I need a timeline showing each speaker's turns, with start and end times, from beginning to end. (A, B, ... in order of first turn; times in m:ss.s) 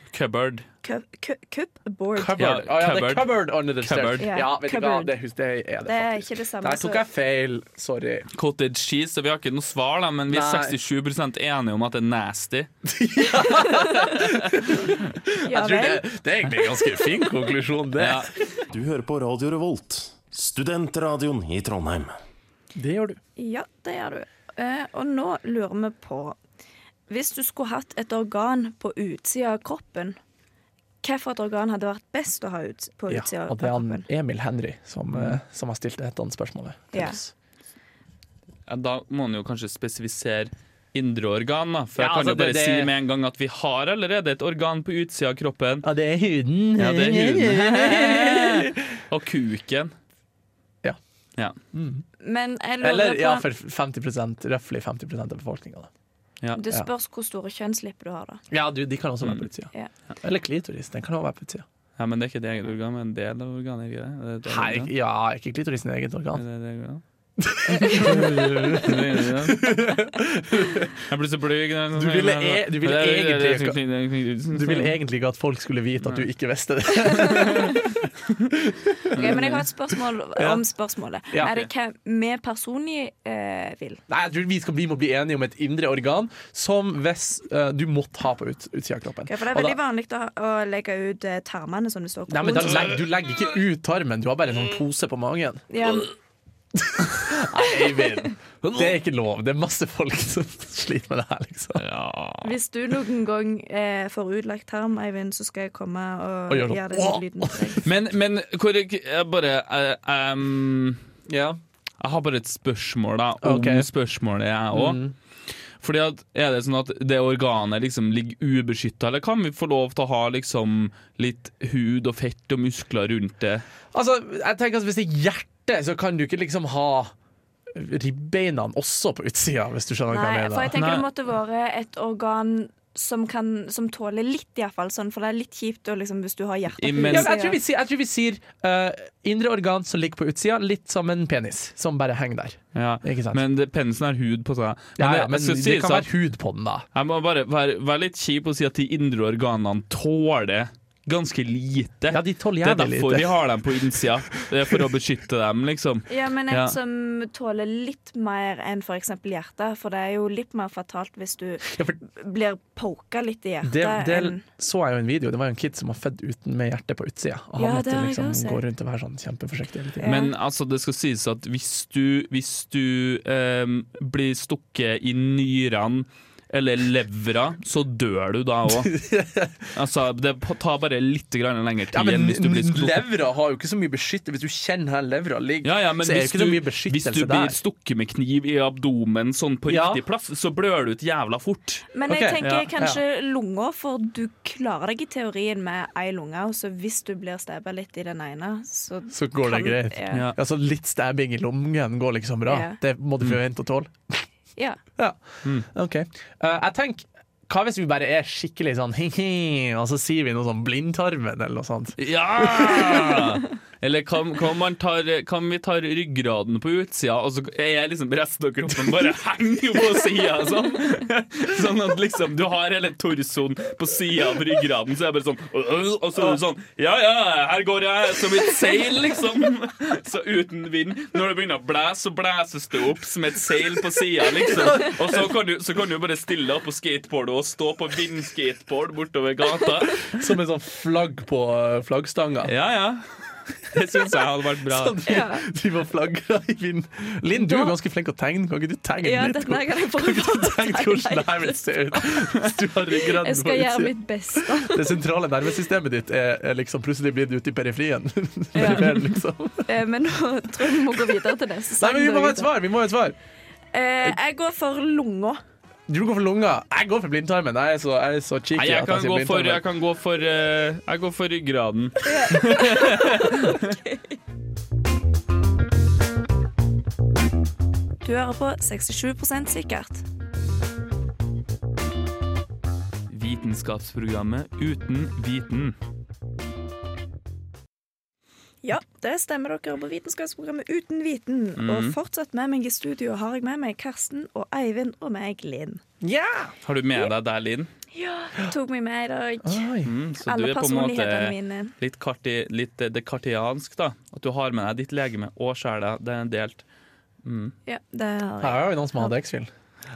0:00.1-0:00.7 A
0:00.8-0:02.5 B
0:02.2-0:08.3 C
0:02.4-0:04.3 A
0:04.2-0:05.1 B
0:05.8-0:07.0 B
0:08.3-0:12.7 A
0:10.3-0:10.8 C
0:12.8-0:18.6 C
0:13.6-0:14.2 B
0:15.4-0:16.1 B
0:16.8-0:17.1 B
0:18.0-0:18.3 A
0:18.7-0:22.1 D
0:22.8-0:23.2 C
0:23.4-0:26.4 B
0:27.1-0:30.2 B
0:31.0-0:34.1 B
0:33.1-0:37.3 C
0:35.1-0:35.4 A
0:36.9-0:37.2 B
0:38.7-0:45.9 A
0:42.0-0:42.9 C
0:45.8-0:49.0 C
0:46.8-0:49.9 A
0:51.7-0:52.0 C
0:52.2-0:53.5 B
0:52.8-0:55.9 C
0:56.6-0:58.4 B
0:58.5-0:59.7 C
1:00.2-1:01.6 C
1:02.0-1:04.9 A
1:04.5-1:06.4 C
1:06.4-1:07.0 A
1:07.4-1:11.0 C
1:07.7-1:08.8 B
1:07.8-1:09.7 A
1:11.0-1:15.0 A
1:12.0-1:13.8 C
1:14.5-1:18.0 C
1:17.0-1:17.8 B
1:17.5-1:17.8 A
1:18.5-1:19.6 C
1:19.1-1:24.0 B
1:19.1-1:19.7 A
1:20.4-1:20.6 C
1:21.4-1:21.7 A
1:24.1-1:29.8 C
1:29.3-1:33.0 B
1:32.3-1:35.6 C
1:35.7-1:36.1 B
1:36.7-1:41.9 C
1:38.0-1:38.3 B
1:41.8-1:42.5 A
1:42.4-1:47.9 B
1:46.5-1:47.9 C
1:47.8-1:51.0 A
1:51.3-1:51.6 C
1:52.0-1:55.0 A
1:53.4-1:53.9 C
1:54.7-1:55.1 C
1:55.8-2:03.6 A
2:03.9-2:07.1 C
2:07.7-2:10.8 C
2:10.1-2:17.6 B
2:10.7-2:11.0 A
2:16.8-2:17.3 A
2:17.1-2:23.4 C
2:22.7-2:26.1 A
2:25.0-2:26.9 C
2:27.0-2:36.8 A
2:32.1-2:34.9 C
2:36.1-2:44.4 B
2:41.6-2:42.0 C
2:43.6-2:50.1 C
2:47.6-2:48.6 B
2:50.0-2:50.3 B
2:50.0-2:59.0 A
2:58.7-2:59.7 C
2:59.7-3:03.0 A
3:01.9-3:07.6 C
3:05.6-3:11.8 A
3:09.7-3:10.0 C
3:11.9-3:20.3 B
3:12.1-3:13.0 C
3:12.4-3:12.7 A
3:19.1-3:24.2 C
3:22.5-3:22.8 B
3:25.0-3:33.4 C
3:32.0-4:00.2 A
3:54.5-3:55.2 C
4:00.0-4:02.5 C
4:02.4-4:05.0 A
4:04.7-4:19.7 C
4:05.1-4:05.5 B
4:07.4-4:07.7 B
4:09.0-4:12.2 B
4:12.9-4:15.0 B
4:18.6-4:19.1 B
4:18.6-4:18.9 A
4:19.6-4:22.5 B
4:21.8-4:23.2 C
4:23.7-4:25.4 B
4:25.9-4:29.6 C
4:28.6-4:33.7 A
4:32.0-4:34.1 B
4:38.0-4:40.0 B
4:43.1-4:45.8 A
4:48.6-4:55.8 B
4:51.6-4:52.0 A
4:56.0-4:56.6 C
4:56.6-4:57.7 A
4:57.9-4:59.7 B
4:59.4-4:59.9 C
4:59.8-5:06.6 A
5:00.2-5:01.8 B
5:07.2-5:07.5 A
5:07.7-5:09.1 B
5:08.4-5:09.5 C